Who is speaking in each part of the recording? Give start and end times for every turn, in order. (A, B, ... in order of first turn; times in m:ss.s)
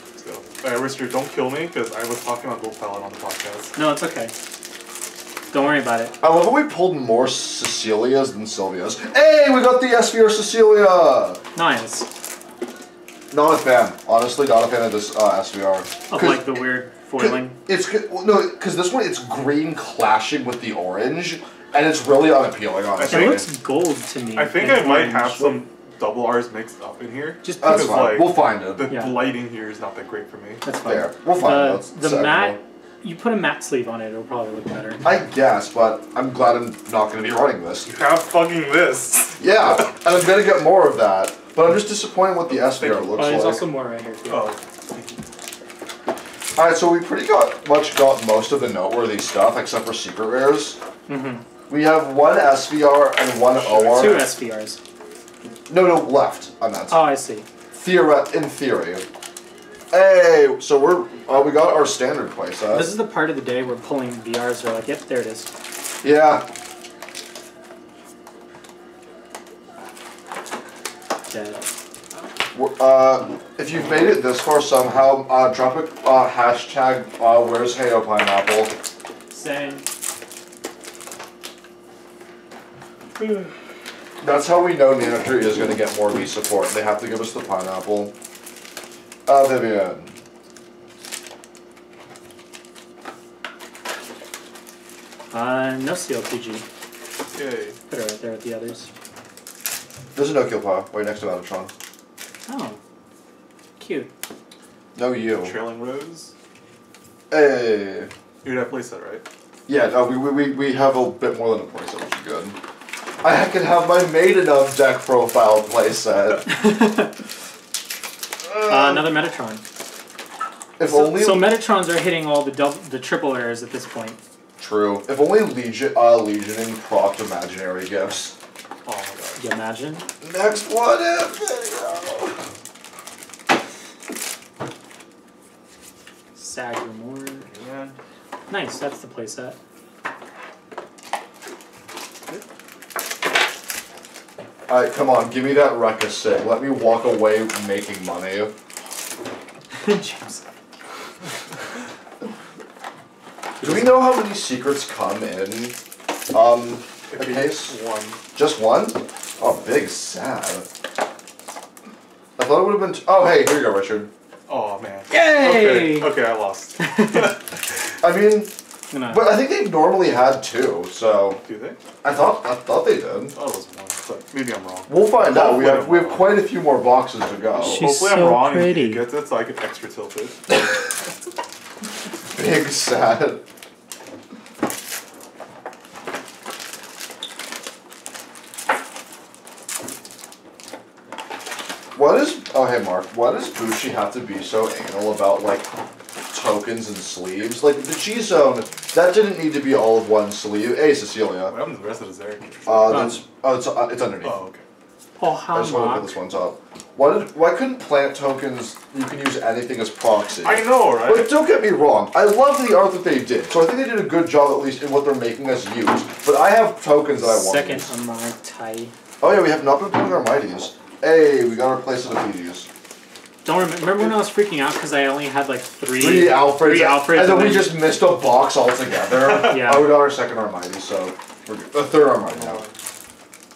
0:00.1-0:03.8 A
0:03.8-0:04.3 B
0:05.5-0:06.2 B
0:06.2-0:11.4 C
0:11.5-0:12.1 B
0:13.3-0:16.5 C
0:16.1-0:17.6 B
0:17.2-0:23.4 C
0:23.0-0:23.5 A
0:23.1-0:25.6 B
0:24.4-0:30.6 A
0:27.4-0:28.1 B
0:27.6-0:28.9 C
0:28.9-0:29.3 B
0:30.6-0:35.0 B
0:30.8-0:32.6 C
0:35.0-0:37.9 C
0:37.8-0:39.8 A
0:39.4-0:43.6 C
0:42.6-0:43.5 A
0:43.1-0:44.5 B
0:44.3-0:45.2 A
0:46.6-0:50.8 C
0:51.1-0:51.4 B
0:51.7-0:54.2 C
0:53.5-0:54.4 A
0:53.9-0:54.8 B
0:55.7-0:57.0 C
0:56.9-0:57.5 B
0:57.7-0:59.0 C
0:59.9-1:02.9 C
1:02.7-1:05.5 B
1:06.0-1:06.5 C
1:11.3-1:11.6 B
1:12.5-1:18.7 C
1:19.3-1:19.8 B
1:24.2-1:28.1 C
1:29.2-1:30.1 C
1:35.3-1:36.6 B
1:37.3-1:37.8 A
1:37.9-1:38.9 B
1:40.1-1:41.7 C
1:42.4-1:42.8 B
1:43.8-1:44.1 B
1:44.9-1:45.6 C
1:45.4-1:46.3 A
1:47.3-1:48.1 C
1:48.4-1:49.2 A
1:49.7-1:52.6 C
1:53.2-1:56.6 C
1:56.5-1:57.1 B
1:58.4-1:59.1 C
1:58.7-1:59.6 B
2:00.8-2:01.5 C
2:00.8-2:04.2 B
2:04.6-2:08.4 C
2:08.8-2:09.4 A
2:09.4-2:10.0 B
2:10.2-2:12.4 C
2:16.3-2:17.5 B
2:17.5-2:18.0 A
2:18.5-2:19.6 B
2:24.7-2:28.5 C
2:29.8-2:30.4 B
2:33.6-2:35.8 C
2:36.3-2:37.8 C
2:37.1-2:38.2 A
2:38.3-2:40.7 C
2:42.4-2:44.1 C
2:44.5-2:47.6 A
2:45.1-2:46.1 B
2:46.8-2:47.4 B
2:48.0-2:48.5 C
2:48.9-2:49.3 B
2:49.1-2:51.4 C
2:51.4-2:51.8 A
2:52.0-2:53.4 C
2:53.3-2:56.4 A
2:54.9-2:57.8 C
2:57.6-2:59.0 B
2:57.6-3:00.5 A
3:02.3-3:03.4 C
3:11.9-3:15.7 C
3:16.3-3:21.5 C
3:21.5-3:23.1 A
3:22.6-3:24.4 C
3:22.9-3:23.2 B
3:24.2-3:24.6 A
3:25.2-3:26.1 B
3:25.5-3:37.9 C
3:30.4-3:31.4 A
3:37.2-3:38.9 B
3:39.2-3:42.7 C
3:43.4-3:47.8 B
3:45.9-3:52.6 C
3:49.5-3:50.0 B
3:52.3-3:52.7 A